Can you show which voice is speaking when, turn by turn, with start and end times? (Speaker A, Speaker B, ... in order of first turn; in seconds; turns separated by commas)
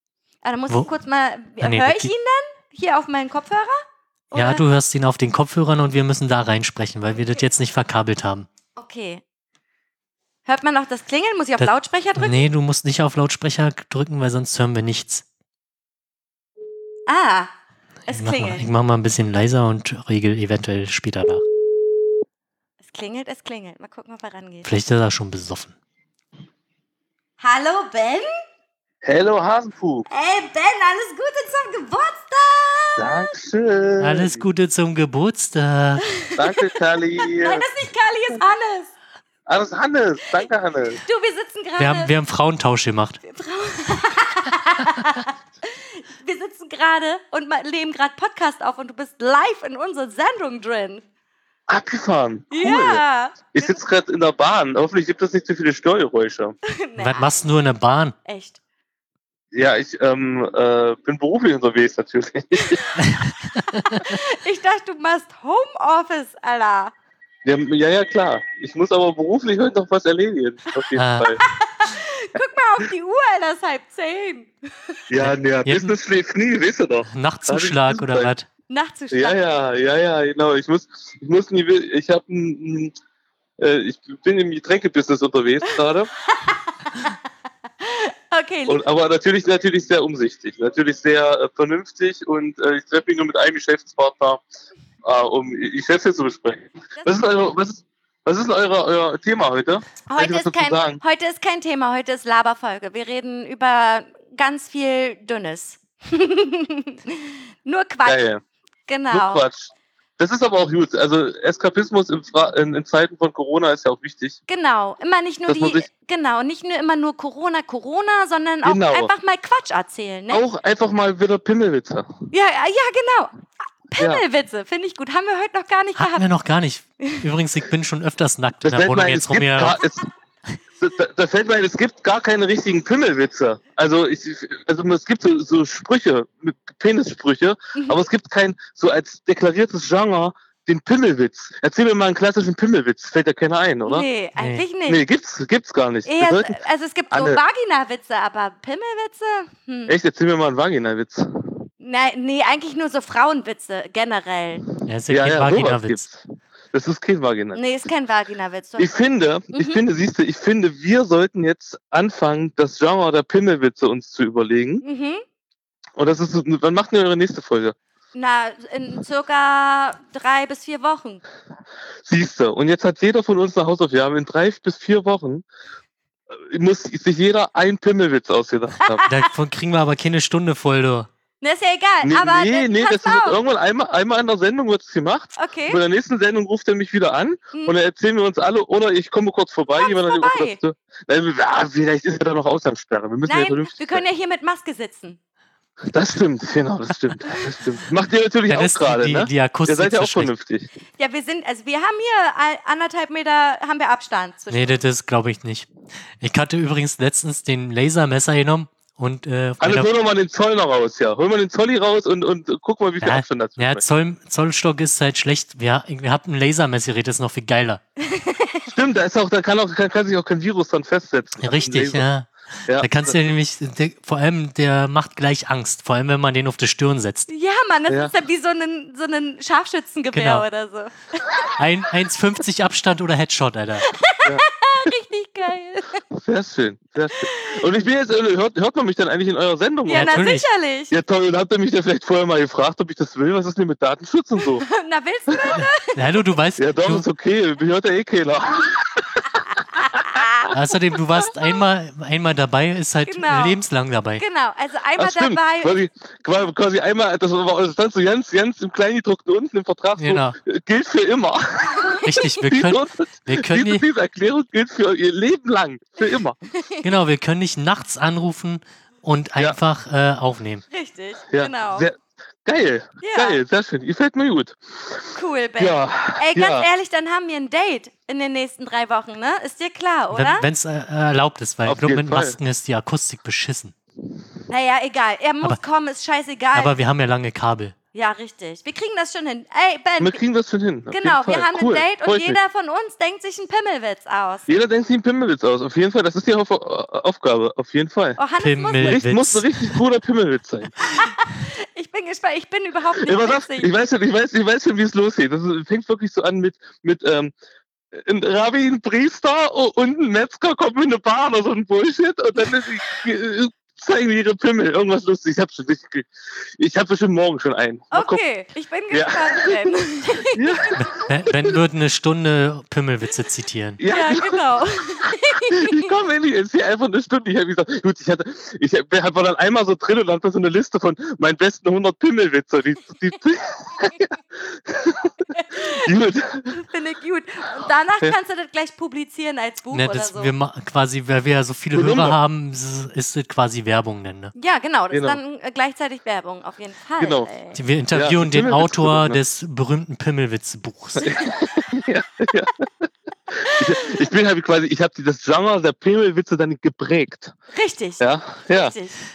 Speaker A: 0.4-3.8, Speaker B: 1.6-2.1, Speaker A: 4.3-4.6, Speaker B: 4.3-8.5, Speaker A: 8.8-9.2, Speaker A: 10.4-12.5, Speaker B: 11.6-15.2, Speaker A: 17.1-17.5, Speaker A: 18.1-18.6, Speaker B: 18.1-21.4, Speaker A: 22.8-24.7, Speaker B: 24.6-25.7, Speaker A: 27.4-28.3, Speaker C: 29.0-30.1, Speaker A: 30.1-33.3, Speaker C: 33.0-34.4, Speaker B: 34.0-36.0, Speaker A: 36.0-36.6, Speaker C: 36.3-37.6, Speaker A: 37.2-38.9, Speaker C: 39.5-41.0, Speaker A: 41.0-42.1, Speaker B: 41.8-43.2, Speaker A: 43.2-51.0, Speaker C: 51.7-56.5, Speaker A: 52.5-53.8, Speaker A: 56.6-57.3, Speaker B: 57.0-58.1, Speaker A: 58.2-58.6, Speaker C: 59.5-62.8, Speaker A: 62.6-63.0, Speaker B: 63.0-64.1, Speaker A: 63.7-66.9, Speaker C: 67.4-71.4, Speaker B: 71.0-71.3, Speaker A: 71.4-75.0, Speaker C: 75.1-78.3, Speaker B: 75.2-75.9, Speaker B: 77.1-78.5, Speaker A: 78.7-79.4, Speaker C: 79.1-82.9, Speaker C: 83.6-86.1, Speaker A: 86.2-87.1, Speaker A: 87.8-88.8, Speaker C: 88.7-94.4, Speaker C: 95.0-101.0, Speaker A: 100.1-108.2, Speaker C: 108.0-108.4, Speaker A: 108.9-109.4, Speaker C: 109.1-114.4, Speaker A: 114.5-120.4, Speaker C: 115.5-115.9, Speaker C: 118.6-119.1, Speaker C: 120.3-122.1, Speaker A: 122.3-123.3, Speaker A: 123.9-126.3, Speaker C: 124.0-124.2, Speaker B: 126.0-129.8, Speaker C: 128.6-130.1, Speaker C: 130.8-144.1, Speaker A: 137.7-138.0, Speaker A: 143.8-145.0, Speaker B: 144.4-144.6, Speaker C: 144.9-146.6, Speaker A: 146.1-149.9, Speaker C: 147.1-147.4, Speaker C: 149.9-151.2, Speaker A: 151.8-154.6, Speaker B: 154.8-156.0, Speaker C: 155.1-156.2, Speaker C: 156.7-157.6, Speaker A: 157.5-158.9, Speaker C: 158.8-164.8, Speaker A: 159.5-159.8, Speaker A: 164.8-165.2, Speaker C: 166.0-167.7, Speaker A: 168.1-171.2, Speaker C: 172.0-175.4, Speaker C: 176.4-179.0, Speaker A: 178.8-179.3, Speaker B: 179.1-181.1, Speaker A: 181.4-183.4, Speaker C: 182.0-194.0, Speaker A: 185.4-185.8, Speaker A: 189.8-190.6, Speaker A: 193.2-195.2, Speaker C: 195.9-200.7, Speaker B: 198.5-200.3, Speaker A: 201.0-204.8, Speaker B: 204.5-205.7, Speaker B: 206.2-209.9, Speaker C: 209.6-213.8, Speaker B: 213.0-217.8, Speaker A: 218.0-218.7, Speaker C: 218.7-222.1, Speaker B: 221.4-227.3, Speaker C: 222.7-223.2, Speaker A: 227.3-231.4, Speaker C: 227.9-228.1, Speaker B: 230.1-230.4, Speaker B: 231.5-233.9, Speaker A: 233.8-236.0, Speaker C: 236.2-240.2, Speaker A: 237.1-237.6, Speaker A: 239.8-240.9, Speaker B: 239.9-240.5, Speaker C: 240.9-244.7, Speaker A: 244.4-246.0, Speaker B: 245.9-247.0, Speaker C: 246.6-249.4, Speaker A: 249.7-250.5, Speaker C: 249.9-250.5, Speaker B: 250.5-254.2, Speaker A: 253.0-253.6, Speaker A: 254.2-255.8, Speaker C: 255.0-266.4, Speaker B: 260.0-260.4, Speaker A: 261.8-262.1, Speaker B: 262.0-263.8, Speaker A: 266.1-266.9, Speaker B: 266.8-270.6, Speaker A: 270.7-271.9, Speaker C: 271.3-274.9, Speaker A: 273.0-273.4, Speaker A: 275.1-280.5, Speaker C: 275.6-276.7, Speaker B: 280.1-283.7, Speaker C: 281.6-282.4, Speaker A: 284.5-286.7, Speaker B: 286.5-287.7, Speaker A: 287.9-290.2, Speaker C: 290.0-292.4, Speaker A: 290.9-294.4, Speaker C: 294.5-298.2, Speaker A: 298.2-299.0, Speaker B: 298.4-299.8, Speaker C: 298.8-300.8, Speaker A: 300.8-303.7, Speaker C: 303.0-307.3, Speaker C: 307.9-318.2, Speaker A: 317.9-320.8, Speaker C: 318.9-319.6, Speaker C: 320.3-321.6, Speaker B: 320.8-323.8, Speaker C: 323.8-324.4, Speaker A: 323.9-325.9, Speaker C: 325.5-336.6, Speaker A: 335.3-335.9, Speaker A: 336.5-340.3, Speaker B: 339.7-344.3, Speaker C: 341.7-342.2, Speaker A: 344.3-347.6, Speaker C: 344.9-345.2, Speaker C: 347.0-347.3, Speaker B: 347.5-351.1, Speaker C: 347.9-349.2, Speaker C: 351.0-352.7, Speaker A: 351.0-351.6, Speaker C: 353.3-357.3, Speaker A: 353.4-353.9, Speaker A: 357.5-359.0, Speaker C: 358.0-358.7